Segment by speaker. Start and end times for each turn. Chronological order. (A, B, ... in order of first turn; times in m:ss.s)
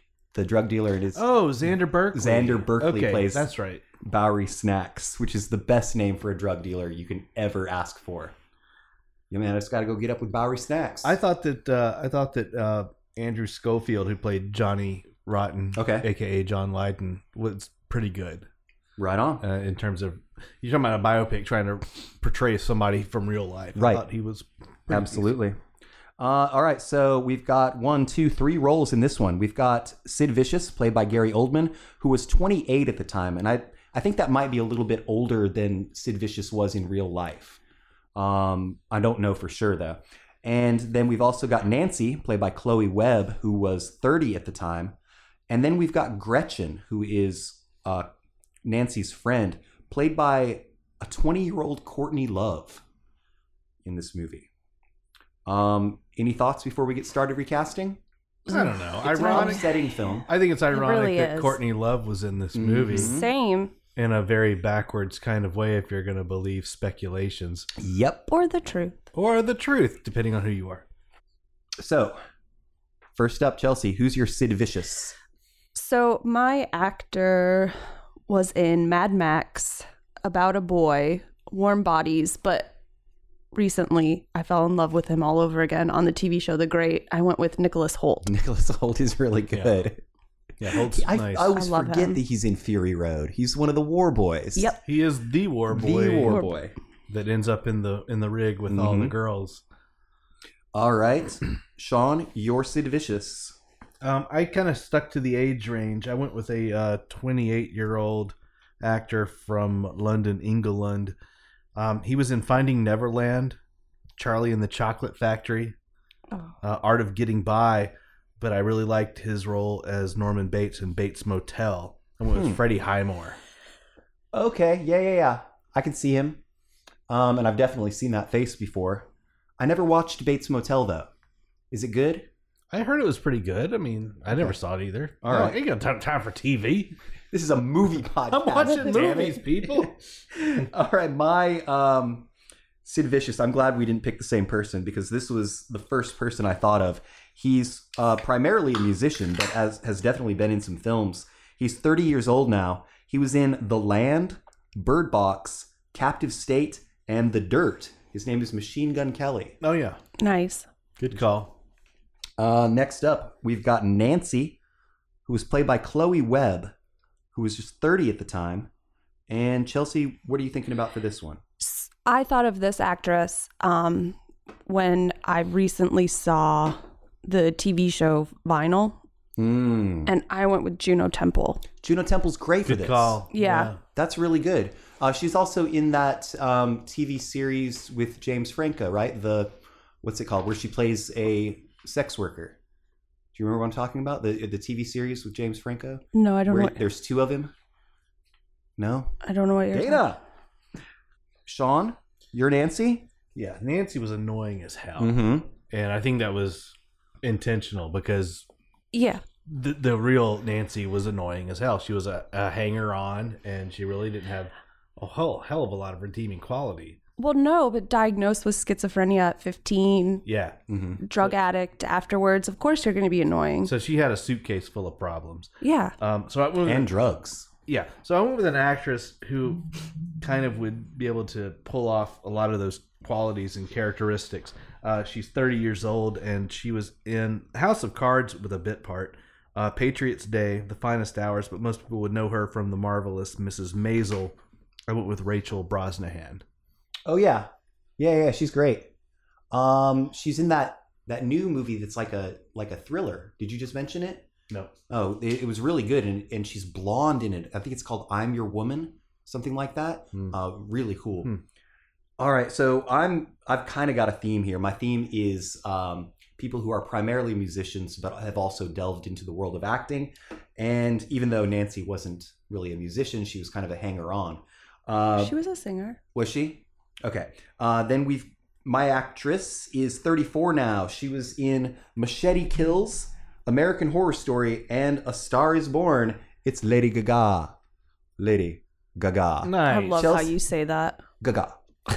0:00.3-0:01.2 A
0:01.1-0:03.8 B
0:02.1-0:03.5 A
0:04.0-0:08.3 A
0:09.3-0:11.1 A
0:11.0-0:18.4 B
0:15.7-0:16.1 A
0:19.0-0:19.4 A
0:19.4-0:25.3 B
0:23.8-0:24.0 A
0:24.9-0:25.6 A
0:26.2-0:37.6 A
0:38.1-0:44.9 A
0:45.5-0:48.1 A
0:48.6-0:52.8 A
0:53.8-0:54.5 A
0:55.4-0:58.0 A
0:58.5-0:59.6 C
0:58.5-0:59.7 B
0:59.0-1:00.3 A
1:00.3-1:03.1 B
1:00.7-1:01.6 C
1:02.5-1:03.3 A
1:02.9-1:03.7 C
1:04.0-1:07.7 B
1:07.8-1:08.3 A
1:08.3-1:09.0 C
1:09.1-1:10.8 B
1:11.8-1:12.2 A
1:13.2-1:15.1 A
1:15.7-1:17.8 C
1:18.3-1:22.7 C
1:23.5-1:28.3 C
1:28.2-1:30.0 A
1:30.6-1:31.5 B
1:30.6-1:34.7 A
1:31.5-1:32.2 C
1:34.8-1:36.4 B
1:35.7-1:36.7 A
1:36.2-1:36.5 C
1:37.1-1:39.6 B
1:38.7-1:39.1 A
1:40.7-1:43.6 A
1:44.0-1:51.1 B
1:51.8-1:53.6 B
1:54.2-1:55.7 B
1:56.6-2:03.4 B
2:02.3-2:02.6 A
2:04.3-2:06.4 A
2:07.1-2:09.1 A
2:09.6-2:11.1 A
2:11.7-2:12.3 A
2:12.7-2:17.0 B
2:15.2-2:15.6 A
2:17.3-2:22.3 A
2:18.3-2:20.0 B
2:22.8-2:39.6 A
2:39.6-2:40.0 B
2:40.2-2:40.7 C
2:41.0-2:41.5 B
2:42.4-2:44.6 A
2:45.2-2:46.7 A
2:47.3-2:48.7 A
2:49.3-2:51.4 A
2:51.6-2:59.0 C
2:59.4-3:00.1 A
3:00.0-3:01.6 C
3:01.8-3:03.2 A
3:02.6-3:03.8 B
3:03.3-3:03.7 C
3:03.9-3:12.6 A
3:13.3-3:17.5 A
3:16.1-3:16.8 C
3:18.8-3:19.1 A
3:19.2-3:20.1 C
3:19.7-3:20.2 A
3:21.4-3:23.1 A
3:23.3-3:28.4 B
3:25.0-3:25.5 A
3:28.9-3:29.2 C
3:29.5-3:37.0 B
3:37.2-3:40.2 C
3:40.2-3:40.6 B
3:40.7-3:41.0 A
3:41.0-3:43.7 C
3:43.6-3:46.9 B
3:45.6-3:45.9 C
3:46.6-3:47.5 A
3:47.6-3:49.6 B
3:50.2-4:04.3 B
4:04.9-4:06.4 B
4:07.0-4:08.9 A
4:09.5-4:14.3 A
4:14.9-4:21.3 A
4:22.2-4:35.4 A
4:35.2-4:36.0 C
4:36.1-4:47.5 A
4:48.2-4:50.3 A
4:49.4-4:50.0 B
4:49.6-4:51.0 C
4:51.2-4:51.6 A